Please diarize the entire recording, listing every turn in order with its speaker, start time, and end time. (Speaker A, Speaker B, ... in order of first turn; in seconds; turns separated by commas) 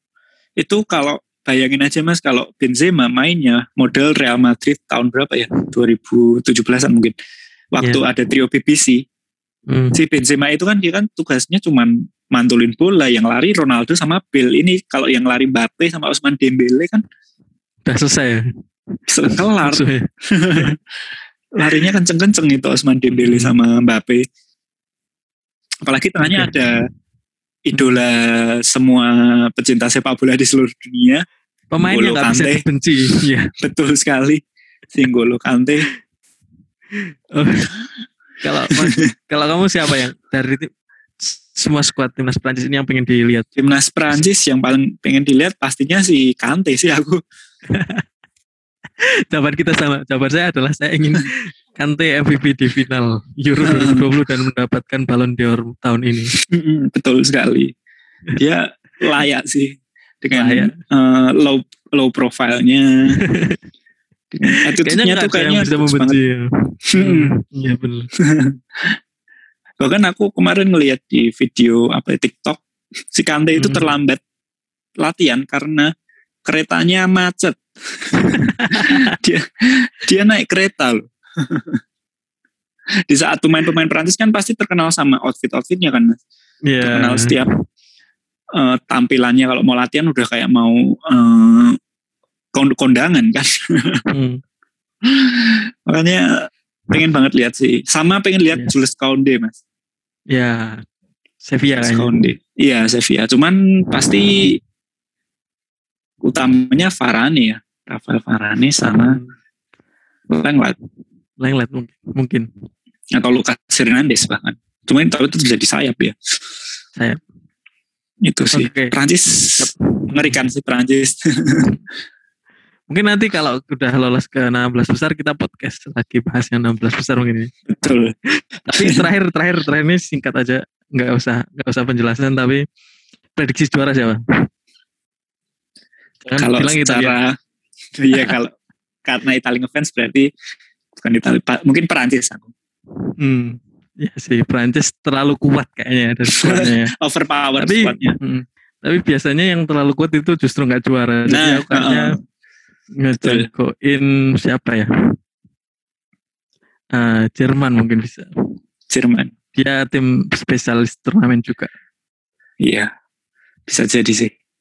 Speaker A: 0.6-7.2, Speaker A: 7.7-9.0, Speaker B: 9.7-10.0, Speaker A: 9.9-17.0, Speaker B: 17.9-18.4, Speaker A: 19.1-20.8, Speaker B: 19.2-20.7, Speaker A: 21.6-24.2, Speaker B: 23.1-23.6, Speaker A: 25.8-26.8, Speaker B: 26.2-26.5, Speaker A: 27.7-31.2, Speaker B: 27.7-28.0, Speaker B: 31.7-33.5, Speaker A: 31.8-32.6, Speaker A: 33.6-34.4, Speaker A: 35.0-35.9, Speaker B: 37.0-37.8, Speaker B: 38.4-40.7, Speaker A: 38.7-39.1, Speaker B: 41.2-43.5, Speaker A: 43.6-47.2, Speaker B: 47.7-48.0, Speaker B: 49.3-56.4, Speaker A: 53.6-54.1, Speaker A: 56.5-57.7, Speaker A: 58.4-63.2, Speaker B: 60.4-60.8, Speaker B: 63.2-63.6, Speaker A: 64.3-66.2, Speaker B: 64.5-66.5, Speaker A: 66.9-67.3, Speaker B: 67.0-68.1, Speaker A: 68.2-69.0, Speaker A: 69.8-72.6, Speaker A: 73.1-74.2, Speaker B: 73.6-74.0, Speaker A: 75.0-75.9, Speaker A: 76.5-81.8, Speaker B: 78.2-79.1, Speaker A: 83.1-86.2, Speaker B: 86.7-87.4, Speaker A: 86.8-87.5, Speaker A: 88.5-91.8, Speaker A: 92.5-94.0, Speaker B: 94.1-94.4, Speaker A: 95.1-96.3, Speaker A: 96.9-99.6, Speaker B: 100.3-100.8, Speaker B: 101.4-102.1, Speaker A: 101.8-104.6, Speaker A: 106.2-109.2, Speaker B: 108.8-109.3, Speaker A: 110.3-110.8, Speaker B: 111.4-112.5, Speaker A: 113.2-116.2, Speaker A: 118.2-121.7, Speaker B: 118.5-118.9, Speaker B: 119.6-120.4, Speaker B: 122.9-127.5, Speaker A: 127.7-128.1, Speaker B: 128.7-132.6, Speaker A: 128.8-129.1, Speaker B: 133.4-134.2, Speaker B: 136.3-137.2, Speaker A: 136.4-137.4, Speaker A: 138.0-138.5, Speaker A: 139.1-140.3, Speaker A: 141.0-142.5, Speaker B: 143.2-146.9, Speaker A: 146.3-148.2, Speaker B: 147.6-152.2, Speaker A: 151.3-152.2, Speaker B: 153.0-154.9, Speaker B: 156.9-158.3, Speaker A: 158.9-159.3, Speaker B: 159.6-161.7, Speaker A: 162.6-162.9, Speaker A: 163.7-164.3